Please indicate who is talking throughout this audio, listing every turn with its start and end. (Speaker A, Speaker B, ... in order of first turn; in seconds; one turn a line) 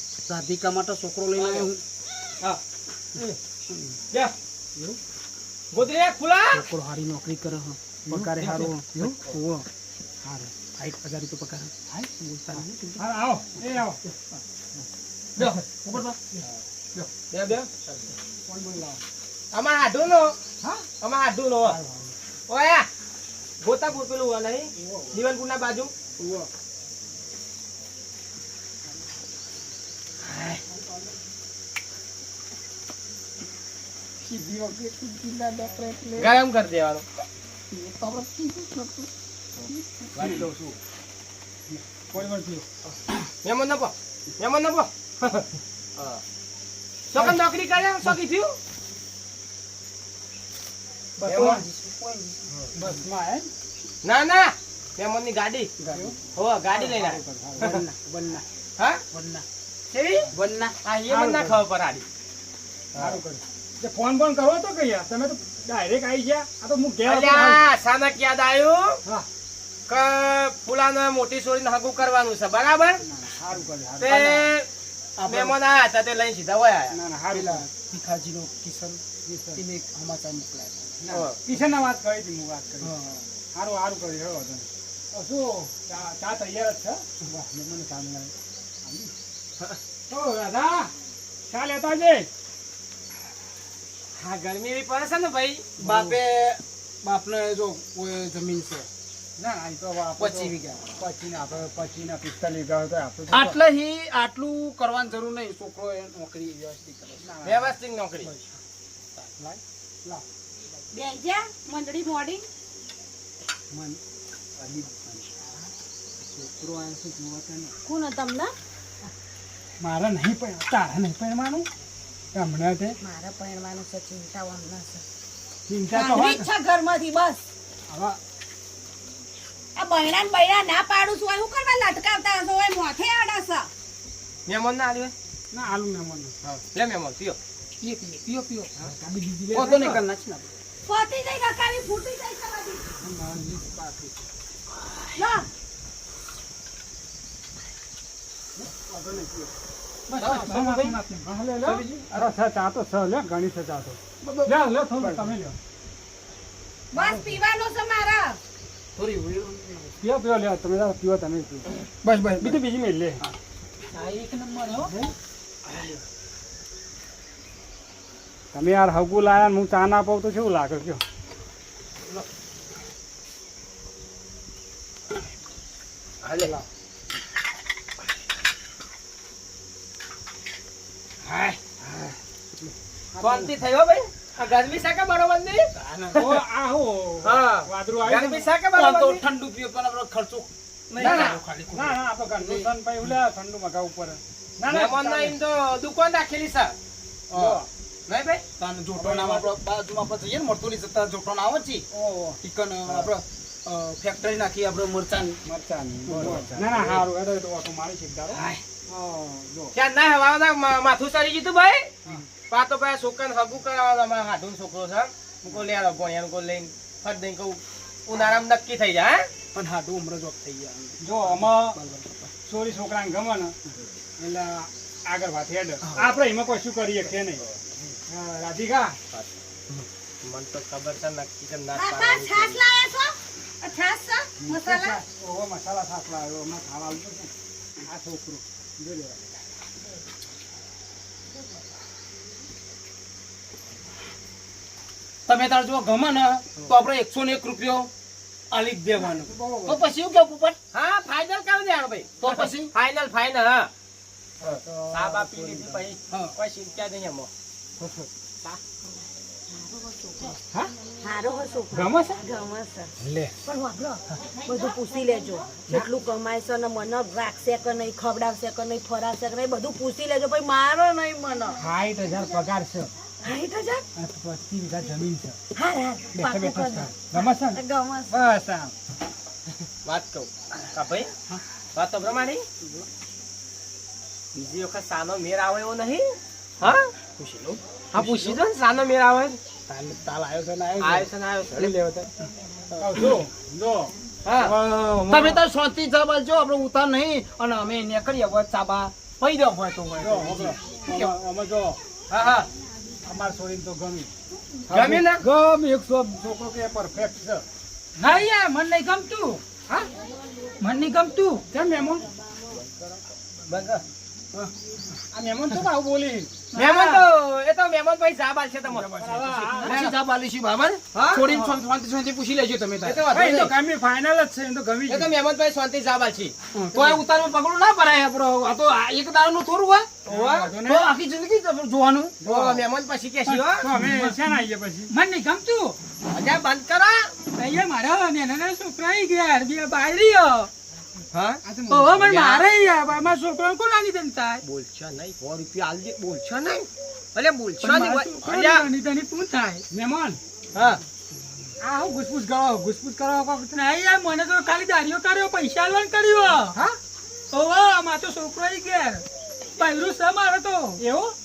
Speaker A: 0.3-1.8
Speaker B: 1.4-1.7
Speaker B: 5.7-6.7
Speaker A: 6.5-9.7
Speaker C: 8.1-9.2
Speaker C: 10.2-10.5
Speaker A: 10.8-13.1
Speaker C: 11.9-14.0
Speaker A: 15.3-16.4
Speaker B: 17.3-17.7
Speaker C: 18.5-19.0
Speaker B: 19.5-20.4
Speaker B: 21.0-21.8
Speaker C: 21.6-22.1
Speaker B: 22.5-22.9
Speaker B: 23.6-25.9
Speaker C: 24.8-25.1
Speaker A: 34.2-36.3
Speaker B: 36.2-37.0
Speaker A: 37.7-40.5
Speaker B: 40.1-40.8
Speaker C: 41.7-42.6
Speaker B: 43.4-45.5
Speaker B: 47.1-48.5
Speaker C: 51.2-51.6
Speaker A: 51.2-52.4
Speaker B: 51.3-51.6
Speaker C: 52.7-53.5
Speaker B: 54.0-55.7
Speaker A: 55.8-56.1
Speaker B: 56.3-57.8
Speaker C: 56.7-57.8
Speaker A: 57.6-58.4
Speaker A: 59.1-59.4
Speaker B: 59.9-60.3
Speaker A: 60.3-60.8
Speaker B: 60.8-62.0
Speaker C: 61.1-61.6
Speaker B: 62.9-63.2
Speaker C: 63.0-67.6
Speaker B: 67.0-69.0
Speaker B: 69.9-73.0
Speaker C: 73.0-74.3
Speaker B: 74.0-74.7
Speaker A: 74.0-74.5
Speaker A: 75.2-75.6
Speaker B: 75.2-77.0
Speaker C: 76.9-77.7
Speaker A: 77.3-79.0
Speaker C: 79.2-79.6
Speaker A: 79.5-81.2
Speaker C: 81.0-82.9
Speaker B: 81.1-81.4
Speaker A: 82.8-83.2
Speaker C: 83.5-88.3
Speaker C: 88.8-89.1
Speaker C: 90.1-90.9
Speaker C: 91.5-92.3
Speaker B: 94.2-95.7
Speaker C: 95.8-96.2
Speaker A: 95.8-98.9
Speaker C: 99.4-103.6
Speaker A: 100.2-100.9
Speaker A: 103.3-107.3
Speaker C: 107.2-108.5
Speaker B: 107.4-108.3
Speaker C: 109.4-110.2
Speaker D: 110.9-112.4
Speaker C: 113.7-114.0
Speaker C: 114.6-115.4
Speaker C: 116.2-117.7
Speaker D: 117.8-118.5
Speaker C: 119.8-121.7
Speaker C: 122.3-123.0
Speaker D: 123.0-125.0
Speaker C: 125.7-126.5
Speaker D: 125.9-127.5
Speaker C: 127.9-128.2
Speaker D: 129.8-133.7
Speaker B: 134.5-135.1
Speaker C: 135.5-136.6
Speaker B: 136.7-137.4
Speaker A: 137.8-140.5
Speaker C: 139.5-140.0
Speaker B: 139.5-139.9
Speaker D: 140.9-142.9
Speaker C: 143.0-144.2
Speaker D: 145.2-145.4
Speaker C: 148.6-149.5
Speaker A: 150.1-151.0
Speaker C: 150.2-155.6
Speaker A: 151.6-152.3
Speaker A: 154.2-155.3
Speaker D: 156.9-158.4
Speaker C: 156.9-157.2
Speaker A: 158.9-159.9
Speaker C: 160.0-161.7
Speaker A: 162.0-162.6
Speaker C: 162.4-163.2
Speaker E: 163.9-164.9
Speaker A: 164.7-165.1
Speaker A: 165.6-166.0
Speaker C: 168.5-171.0
Speaker A: 181.3-181.6
Speaker C: 181.8-182.2
Speaker C: 183.1-183.5
Speaker B: 183.2-186.4
Speaker A: 185.7-186.3
Speaker C: 186.1-188.5
Speaker B: 187.2-189.2
Speaker A: 188.7-192.7
Speaker B: 190.9-191.4
Speaker C: 191.0-195.3
Speaker B: 194.7-196.7
Speaker A: 197.3-197.6
Speaker C: 197.3-197.7
Speaker B: 198.1-198.4
Speaker A: 198.6-201.9
Speaker C: 199.0-199.5
Speaker C: 201.9-203.1
Speaker A: 202.4-205.4
Speaker C: 205.4-209.7
Speaker A: 206.1-207.0
Speaker A: 208.3-208.6
Speaker B: 209.7-211.9
Speaker B: 212.5-219.3
Speaker A: 219.5-222.3
Speaker C: 221.0-221.8
Speaker C: 222.4-223.6
Speaker C: 224.2-227.4
Speaker A: 225.8-226.2
Speaker C: 228.1-229.0
Speaker B: 230.2-232.6
Speaker D: 231.8-235.0
Speaker C: 234.4-237.3
Speaker C: 237.9-239.3
Speaker A: 245.3-247.9
Speaker A: 248.5-250.6
Speaker C: 249.2-249.8
Speaker B: 250.7-253.7
Speaker A: 252.2-252.7
Speaker C: 254.4-255.8
Speaker B: 254.9-257.3
Speaker D: 259.5-260.4
Speaker D: 261.0-262.9
Speaker C: 261.7-262.2
Speaker C: 263.0-263.3
Speaker D: 263.4-271.6
Speaker C: 271.6-272.9
Speaker D: 273.2-273.8
Speaker C: 274.0-275.4
Speaker D: 275.6-278.2
Speaker C: 276.1-278.7
Speaker B: 279.8-281.1
Speaker B: 281.7-282.4
Speaker B: 284.3-286.0
Speaker B: 286.6-286.9
Speaker A: 286.6-288.4
Speaker B: 287.9-289.4
Speaker A: 289.7-292.1
Speaker B: 290.8-291.7
Speaker A: 292.7-293.2
Speaker C: 292.8-295.4
Speaker B: 294.2-294.6
Speaker A: 295.0-301.1
Speaker C: 300.0-301.8
Speaker B: 302.1-302.5
Speaker C: 303.1-304.1
Speaker C: 304.7-307.4
Speaker B: 304.7-305.2
Speaker E: 308.0-309.4
Speaker E: 310.6-311.4
Speaker C: 311.5-312.0
Speaker B: 313.5-313.8
Speaker C: 315.1-316.4
Speaker E: 316.5-317.1
Speaker B: 316.5-319.9
Speaker A: 318.7-323.1
Speaker C: 319.0-319.8
Speaker B: 320.9-321.3
Speaker B: 322.8-323.5
Speaker C: 323.1-325.1
Speaker B: 324.9-326.3
Speaker A: 326.5-329.9
Speaker C: 326.7-327.0
Speaker B: 330.1-330.5
Speaker C: 330.1-330.9
Speaker A: 330.6-332.3
Speaker C: 332.2-332.6
Speaker B: 332.2-333.7
Speaker C: 333.3-334.9
Speaker E: 333.8-334.2
Speaker E: 334.9-335.8
Speaker B: 336.1-337.1
Speaker E: 337.3-340.5
Speaker B: 341.1-341.4
Speaker C: 341.4-342.2
Speaker E: 341.7-344.4
Speaker B: 342.0-342.5
Speaker B: 344.4-345.2
Speaker A: 345.2-346.2
Speaker B: 346.0-346.7
Speaker A: 347.1-347.9
Speaker B: 347.6-348.6
Speaker E: 347.6-349.6
Speaker C: 349.7-350.2
Speaker B: 350.5-350.8
Speaker C: 351.6-353.6
Speaker E: 353.5-356.5
Speaker E: 357.3-359.0
Speaker E: 359.6-360.8
Speaker C: 360.8-361.1